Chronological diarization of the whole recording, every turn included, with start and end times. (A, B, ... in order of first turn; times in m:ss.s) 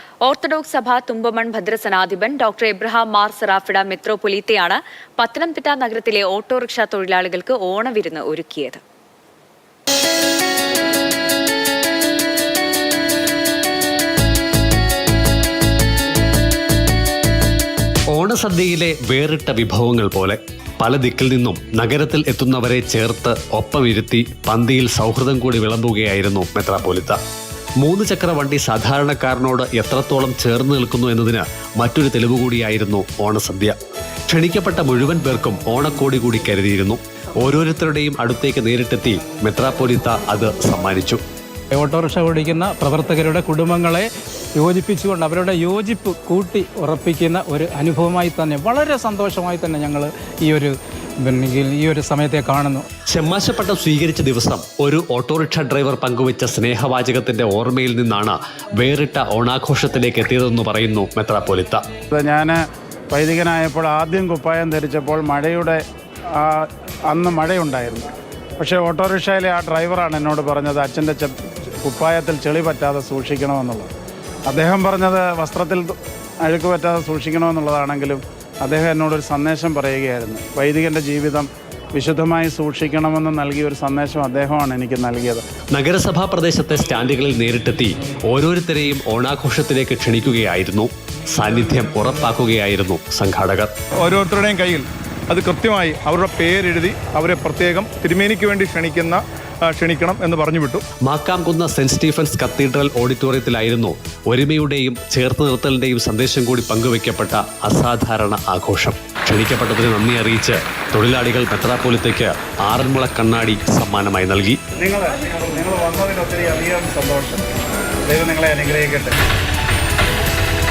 0:00.2-0:08.8 A
0:18.1-0:27.2 B
0:27.8-0:33.8 B
0:34.3-0:41.2 B
0:41.7-0:52.8 C
0:53.1-1:01.8 B
1:02.1-1:02.6 D
1:03.1-1:05.8 D
1:06.3-1:08.1 D
1:08.6-1:13.9 D
1:14.5-1:25.4 D
1:25.7-1:33.7 B
1:34.0-1:40.8 E
1:41.0-1:54.6 B
1:54.8-1:59.2 D